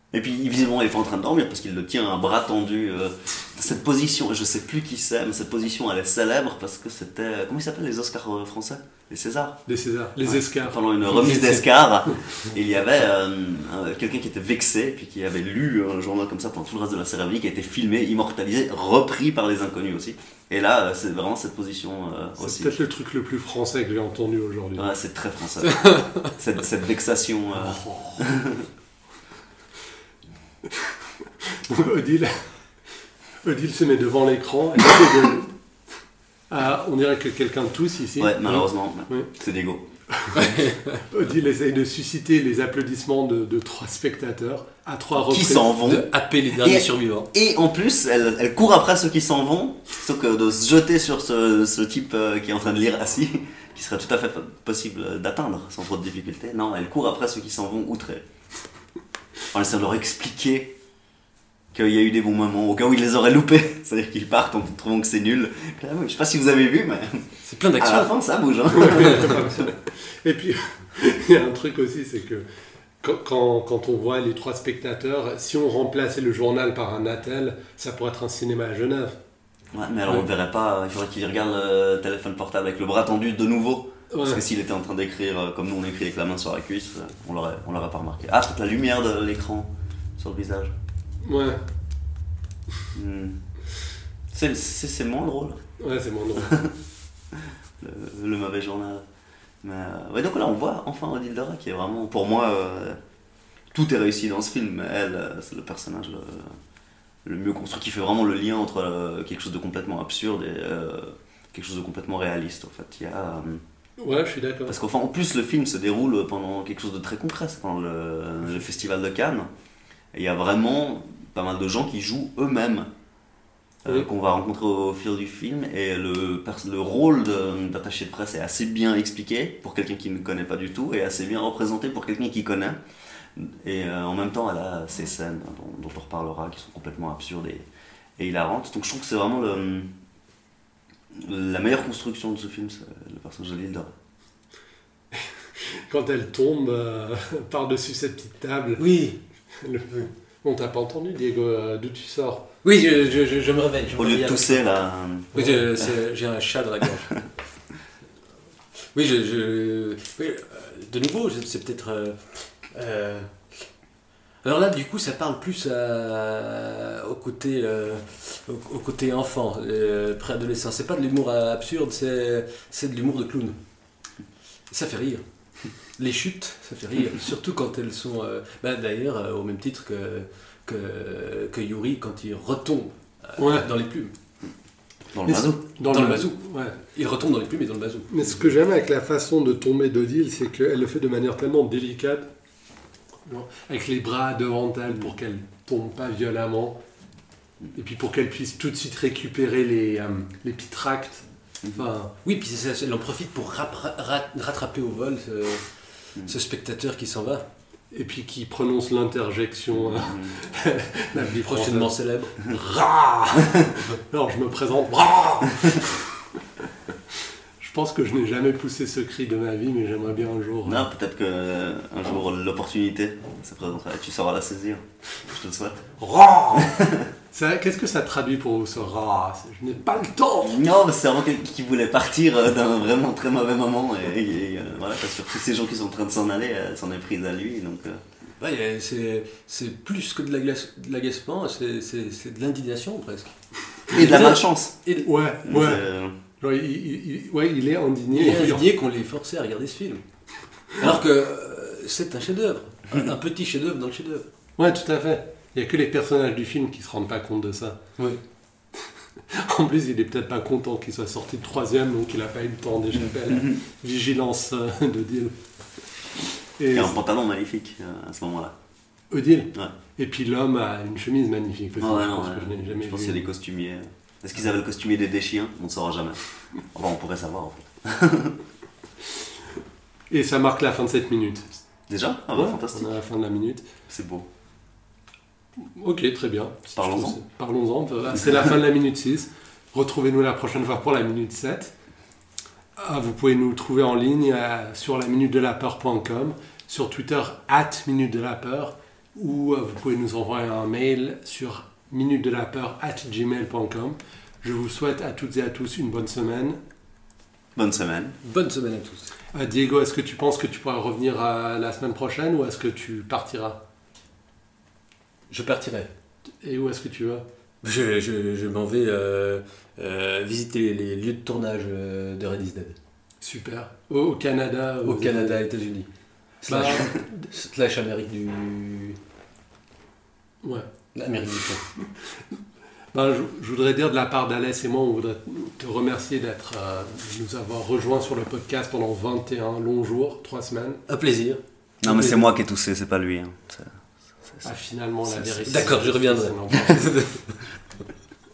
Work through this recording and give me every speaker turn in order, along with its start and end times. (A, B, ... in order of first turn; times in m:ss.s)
0:00.1-0:09.6 A
0:09.6-0:10.8 B
0:10.2-0:22.7 A
0:11.1-0:11.6 C
0:22.4-0:24.9 B
0:24.8-0:28.6 A
0:27.5-0:28.3 B
0:31.4-0:32.3 B
0:33.4-0:35.5 B
0:36.5-0:39.3 B
0:38.2-0:39.8 A
0:40.4-0:40.8 C
0:41.1-0:45.7 B
0:45.1-0:58.2 A
0:45.8-0:47.3 C
0:59.5-1:00.7 A
1:01.7-1:09.6 A
1:07.4-1:08.1 C
1:08.7-1:12.4 B
1:13.0-1:19.2 B
1:19.7-1:30.7 A
1:24.1-1:24.4 B
1:31.2-1:31.6 B
1:32.9-1:33.4 A
1:34.3-1:35.6 A
1:35.8-1:36.6 B
1:36.4-1:36.7 A
1:37.8-1:39.0 A
1:39.6-1:43.0 A
1:43.7-1:46.5 A
1:47.2-1:53.6 A
1:54.0-1:54.8 B
1:54.7-1:59.5 A
2:00.1-2:02.9 A
2:03.8-2:12.8 A
2:13.4-2:17.7 A
2:18.2-2:19.9 A
2:21.1-2:23.9 A
2:25.6-2:28.8 B
2:28.8-2:29.2 C
2:29.6-2:32.5 B
2:32.6-2:34.6 C
2:34.0-2:35.3 A
2:35.3-2:35.6 B
2:35.3-2:37.2 C
2:38.9-2:43.3 C
2:44.4-2:53.6 C
2:54.7-2:55.2 C
2:56.0-3:04.1 C
3:03.4-3:03.7 B
3:05.1-3:05.6 A
3:05.2-3:06.8 B
3:05.8-3:08.3 C
3:08.1-3:12.3 B
3:13.2-3:16.8 B
3:17.7-3:22.1 B
3:22.2-3:25.6 C
3:26.2-3:27.4 C
3:27.9-3:36.0 B
3:29.7-3:30.4 A
3:31.2-3:32.4 C
3:37.6-3:40.8 B
3:40.6-3:45.8 A
3:46.0-3:50.6 B
3:50.4-3:58.0 A
3:58.4-4:03.3 C
4:03.9-4:05.1 C
4:03.9-4:04.8 A
4:05.0-4:05.8 B
4:05.4-4:06.1 A
4:06.4-4:08.6 B
4:08.1-4:10.0 C
4:10.8-4:14.3 C
4:14.6-4:17.8 B
4:19.3-4:25.3 B
4:23.2-4:23.6 A
4:26.6-4:27.0 B
4:26.7-4:28.5 A
4:29.1-4:33.3 B
4:31.8-4:36.2 A
4:36.7-4:38.4 A
4:40.1-4:41.6 B
4:41.9-4:42.9 A
4:42.3-4:43.6 B
4:43.9-4:44.3 A
4:45.6-4:51.7 B
4:46.8-4:47.2 A
4:52.8-5:06.6 B
5:07.5-5:08.2 A
5:08.2-5:09.1 C
5:09.3-5:13.6 B
5:15.3-5:15.9 C
5:16.4-5:17.2 B
5:17.6-5:22.8 C
5:23.2-5:25.4 B
5:24.8-5:25.9 C
5:26.4-5:29.0 C
5:26.5-5:27.2 B
5:30.4-5:30.7 B
5:30.9-5:31.6 C
5:32.9-5:40.8 B
5:40.9-5:42.1 C
5:41.8-5:43.7 A
5:41.9-5:42.1 B
5:44.4-5:47.0 B
5:45.4-5:47.2 C